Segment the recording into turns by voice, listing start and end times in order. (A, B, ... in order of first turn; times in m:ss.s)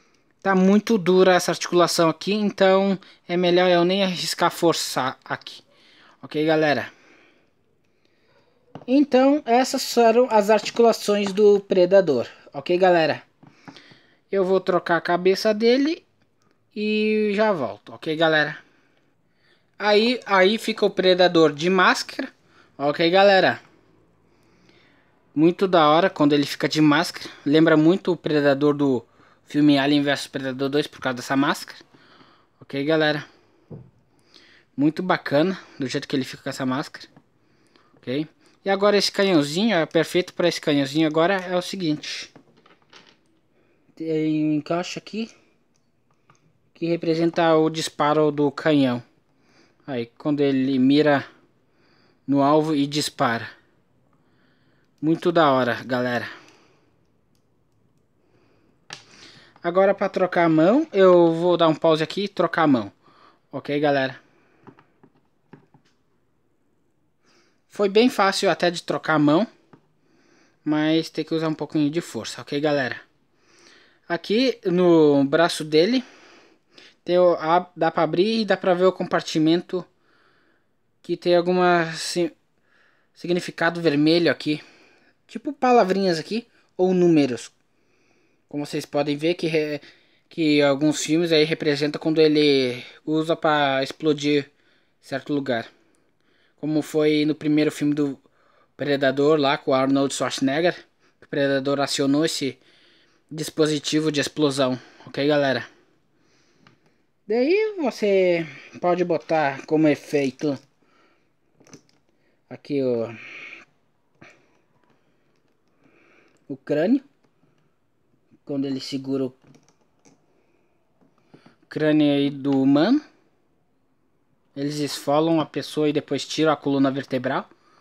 0:00.4-0:05.6 A
0:06.2-0:06.9 A
0:08.9-0:13.2 A
0:14.3-0:16.0 A
0:16.7-0:18.6 A
0:19.8-0:23.6 A
0:25.3-0:31.8 A
0:32.6-0:33.2 A
0:34.8-0:37.1 A
0:38.0-0:42.3 A
0:44.0-0:45.3 A
0:46.7-0:49.0 A
0:49.8-0:51.2 A
0:52.3-0:53.5 A
0:55.0-0:56.3 A
0:59.6-1:02.9 A
1:03.5-1:04.2 A
1:07.7-1:09.5 A
1:10.6-1:13.0 A
1:14.1-1:16.0 A
1:17.0-1:19.9 A
1:21.0-1:22.3 A
1:23.1-1:24.6 A
1:25.3-1:27.5 A
1:28.5-1:34.5 A
1:35.0-1:35.7 A
1:36.6-1:38.2 A
1:38.8-1:42.6 A
1:43.3-1:45.7 A
1:47.3-1:50.6 A
1:52.5-1:53.2 A
1:56.5-1:57.0 A
1:58.4-1:59.4 A
2:01.7-2:03.0 A
2:04.5-2:07.5 A